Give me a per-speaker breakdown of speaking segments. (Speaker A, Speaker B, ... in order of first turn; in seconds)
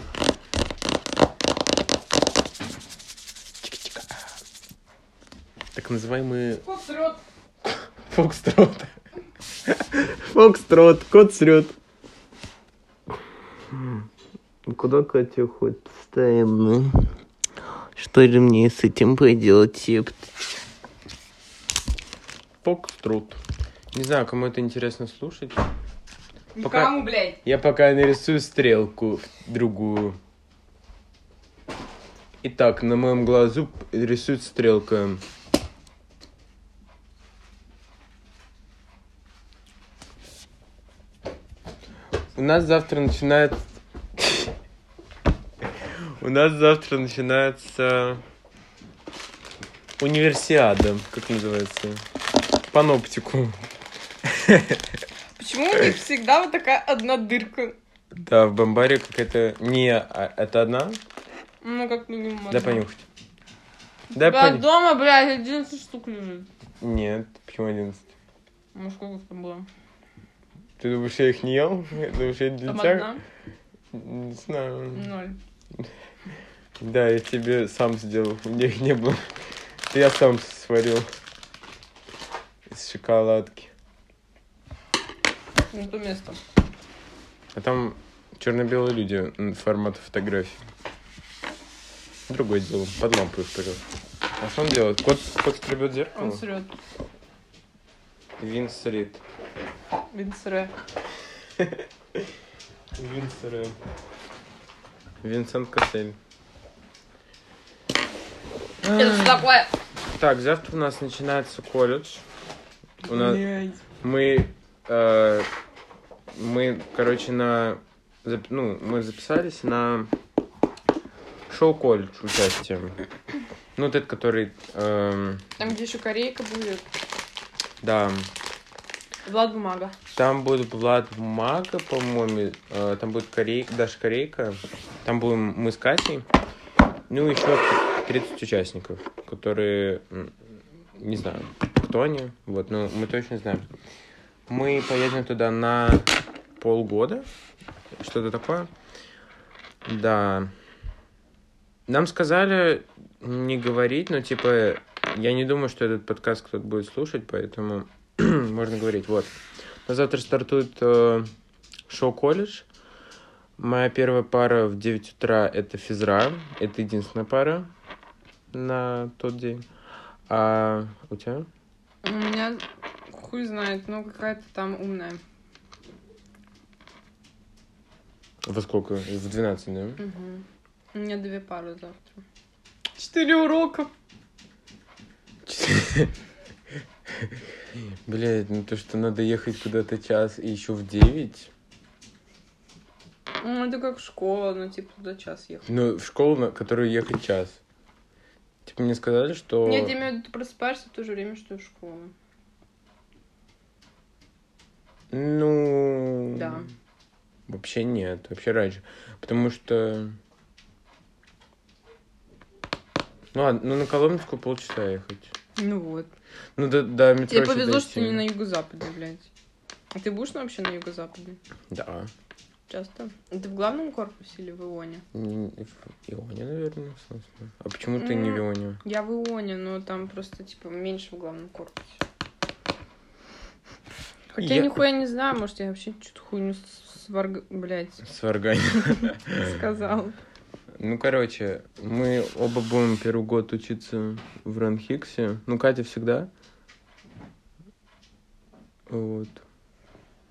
Speaker A: 3.6-4.3, 5.8-6.6, 8.1-8.9, 9.7-11.8, 13.7-14.1, 14.7-17.1, 18.0-20.3, 22.6-23.4, 23.9-25.6, 26.6-30.2, 32.4-35.2, 42.4-43.6, 44.2-44.5, 46.2-48.2, 50.0-52.0, 52.7-53.6, 54.2-55.0, 58.2-61.0, 62.5-63.1, 64.2-64.7, 66.8-68.1, 70.8-73.2, 73.9-75.1, 76.8-79.3, 79.9-81.1, 82.7-83.7, 87.5-90.6, 92.3-93.8, 94.4-96.5, 98.4-99.2, 101.6-102.2, 103.0-103.8, 105.2-106.2, 108.8-109.5, 110.1-112.2, 113.0-113.5, 114.0-115.5, 116.3-120.1, 121.5-123.0, 123.8-125.5, 127.8-128.3, 130.1-136.3, 137.1-140.3, 141.0-143.7, 144.5-147.3, 148.0-148.7, 149.9-150.5, 151.9-161.3, 161.9-162.7, 163.6-167.7, 168.5-169.6, 170.3-171.5, 178.4-180.0, 185.5-186.1, 187.1-187.4, 188.1-191.5, 195.7-197.6, 198.7-200.0, 205.1-206.6, 207.5-210.2, 213.3-215.3, 216.6-218.3, 221.7-222.1, 225.1-228.8, 234.4-234.8, 238.0-239.6, 240.8-246.3, 248.9-249.4
Speaker B: 6.6-7.2, 26.6-27.4, 55.4-57.8, 61.6-62.8, 64.1-66.5, 68.7-69.7, 72.7-73.2, 74.9-75.4, 85.7-86.4, 96.2-96.7, 100.1-100.7, 109.0-109.7, 113.0-113.8, 125.6-126.9, 129.3-130.0, 172.0-175.2, 180.0-182.2, 183.0-183.9, 193.4-195.7, 199.7-202.1, 206.3-206.7, 215.6-216.1, 217.3-219.3, 219.9-221.4, 222.7-225.0, 228.0-232.0, 234.3-238.0, 239.0-240.2